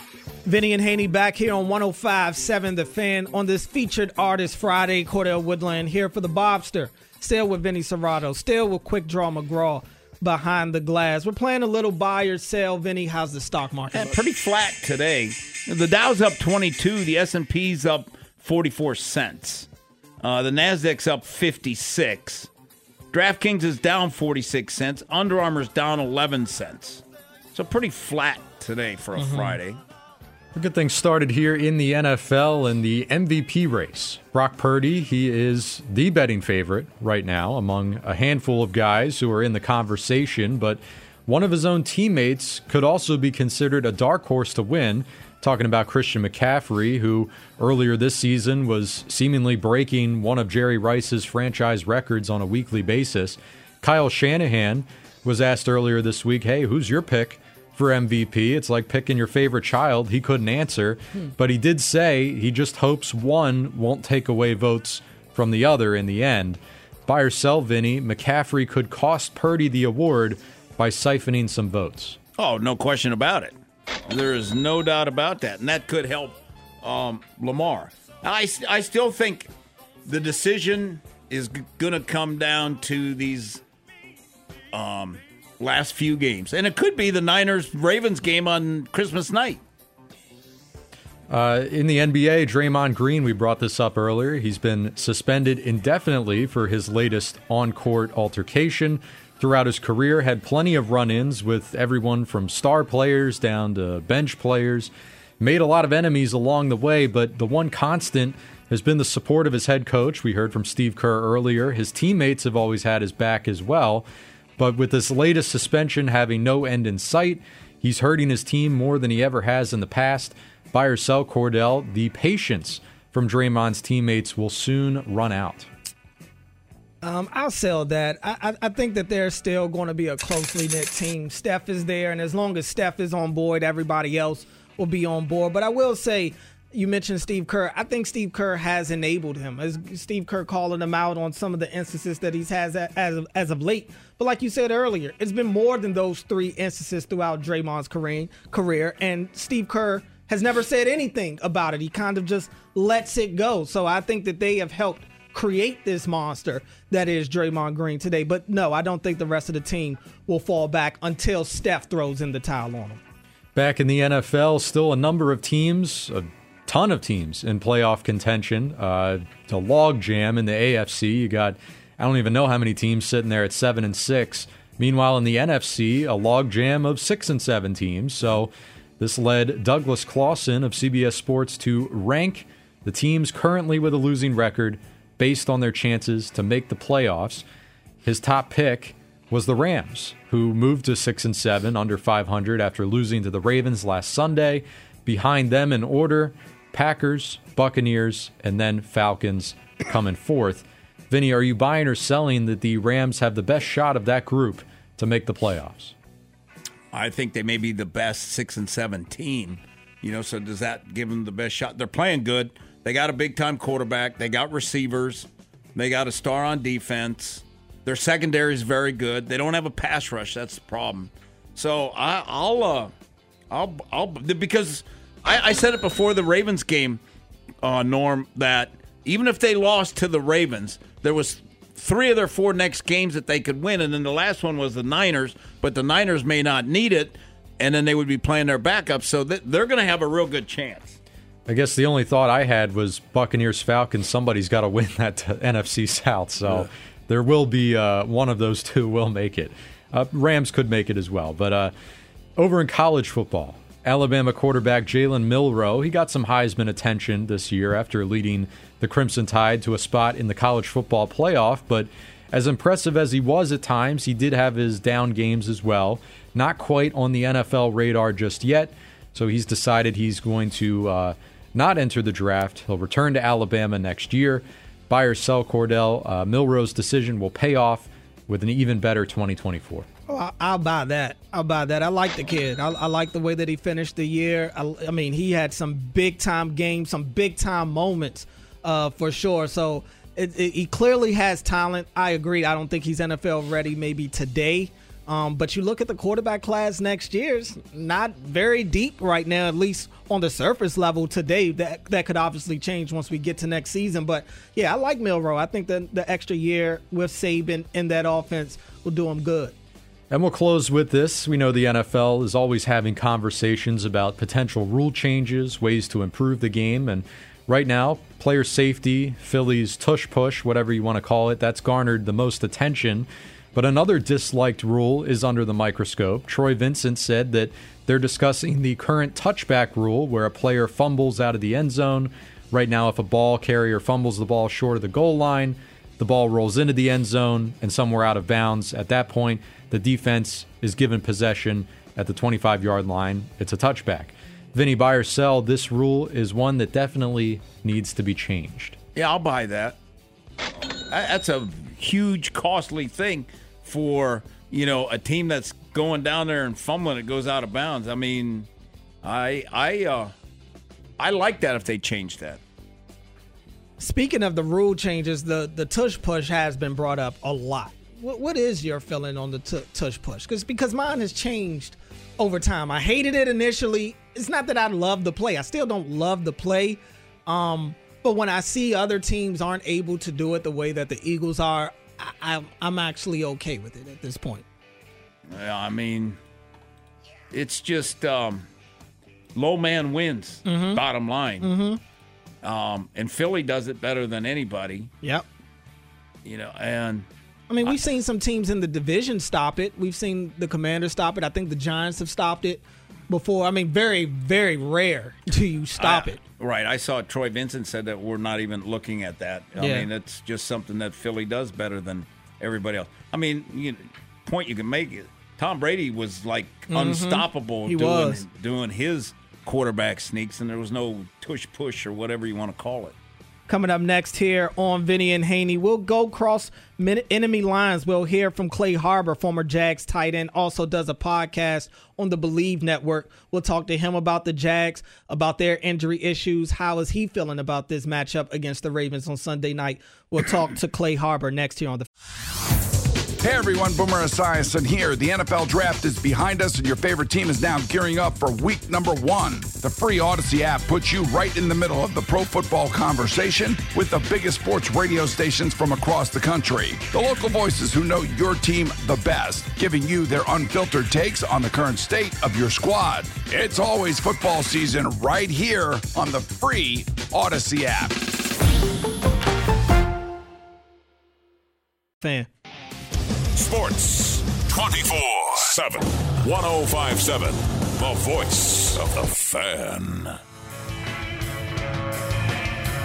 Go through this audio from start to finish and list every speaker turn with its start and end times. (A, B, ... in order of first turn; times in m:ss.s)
0:00.4-0:14.2 A
0:13.9-0:19.7 B
0:20.2-0:22.5 B
0:23.1-0:27.0 B
0:27.5-0:29.8 B
0:29.2-0:29.6 A
0:30.6-1:12.2 C
1:12.4-1:13.6 B
1:14.1-1:19.5 B
1:20.0-1:23.6 B
1:24.7-1:29.6 B
1:31.3-1:54.0 C
1:54.6-2:05.7 C
2:07.0-2:43.0 A
2:43.5-3:07.4 C
3:08.0-3:25.9 C
3:26.9-3:42.9 B
3:43.5-3:47.0 B
3:47.6-4:01.0 B
4:01.5-4:11.7 C
4:12.4-4:39.9 C
4:40.1-5:09.5 A
5:10.1-5:48.8 C
5:48.9-5:49.8 B
5:50.9-5:58.5 B
5:59.0-6:00.1 B
6:01.0-6:02.4 B
6:03.8-6:24.4 A
6:25.3-6:26.2 B
6:27.3-6:28.5 B
6:29.4-6:31.5 B
6:30.4-6:30.8 A
6:31.4-6:31.8 A
6:32.4-6:34.9 B
6:36.2-6:37.1 B
6:37.5-6:46.2 A
6:45.8-7:02.9 B
6:49.6-6:49.9 A
6:56.7-6:58.2 A
7:03.5-7:21.9 A
7:23.2-7:48.0 D
7:52.0-7:52.3 A
7:53.3-8:00.1 E